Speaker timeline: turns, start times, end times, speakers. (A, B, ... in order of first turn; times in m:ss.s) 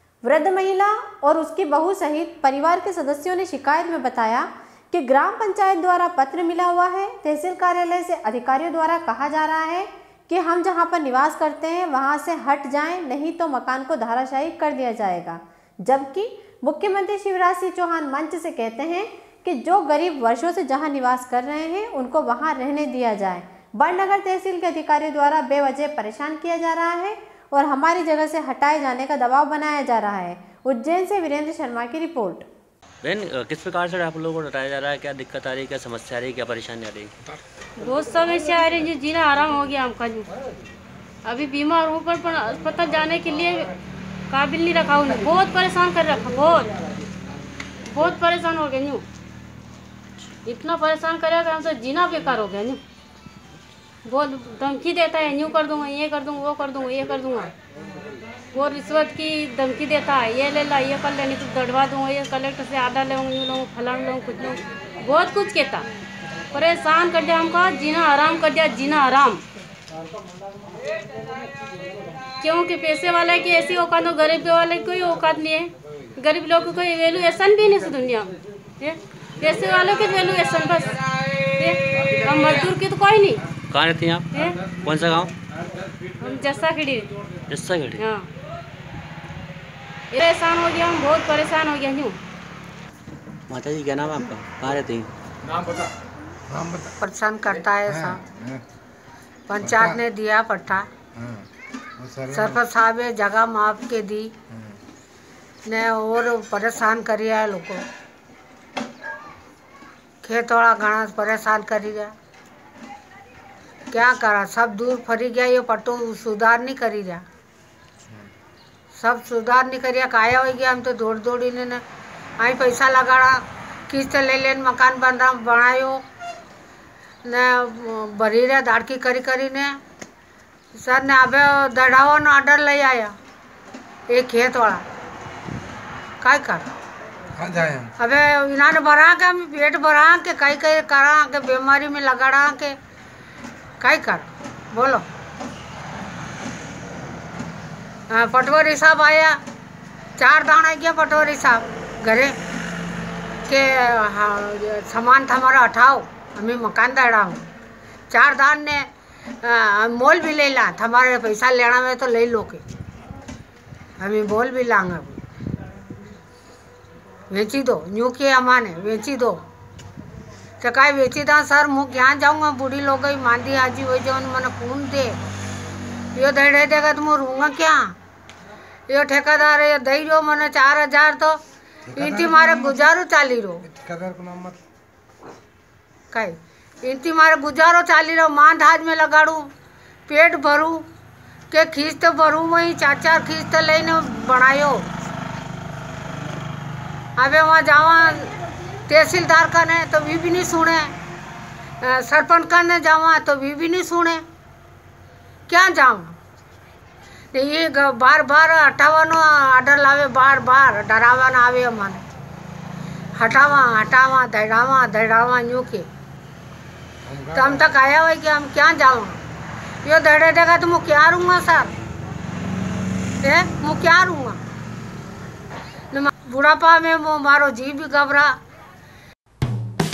0:00.2-0:32.5 A
0:33.0-0:37.1 B
0:37.8-0:40.3 C
0:41.2-0:43.7 C
0:44.3-0:46.7 C
0:47.8-0:49.0 C
0:50.4-0:52.8 C
0:54.0-0:57.5 C
0:58.5-1:05.8 C
1:06.5-1:09.4 C
1:12.4-1:23.6 C
1:23.6-1:25.3 B
1:24.3-1:24.8 C
1:26.2-1:27.1 C
1:27.5-1:28.0 B
1:28.0-1:28.3 C
1:30.1-1:32.2 C
1:33.5-1:35.1 B
1:36.5-1:36.9 D
1:37.0-1:38.2 E
1:37.9-1:38.6 D
1:39.5-1:40.9 E
1:39.6-1:40.0 D
1:41.2-1:41.4 D
1:42.0-1:42.6 D
1:42.3-1:44.3 E
1:45.6-1:47.8 E
1:50.2-1:52.1 E
1:53.9-1:57.2 E
1:58.9-2:01.8 E
2:02.4-2:06.0 E
2:07.2-2:09.8 E
2:10.7-2:13.1 E
2:14.1-2:14.8 E
2:16.2-2:16.7 E
2:17.4-2:17.9 D
2:18.0-2:22.8 E
2:23.8-2:25.0 E
2:28.1-2:29.4 E
2:30.2-2:32.4 E
2:33.5-2:37.5 E
2:38.1-2:38.8 E
2:39.4-2:42.6 E
2:44.0-2:45.2 E
2:47.3-2:49.4 E
2:50.6-2:55.2 E
2:56.1-2:57.9 E
2:58.9-3:01.4 E
3:01.9-3:02.7 D
3:02.0-3:03.6 E
3:03.6-3:04.6 D
3:06.1-3:09.5 E
3:10.1-3:10.8 E
3:11.5-3:14.9 E
3:17.2-3:18.3 E
3:18.9-3:20.9 E
3:21.8-3:24.2 E
3:25.5-3:26.2 E
3:27.3-3:32.0 E
3:33.2-3:35.9 E
3:37.0-3:37.6 D
3:37.3-3:39.2 E
3:39.8-3:41.7 E
3:43.2-3:44.4 E
3:45.9-3:48.4 E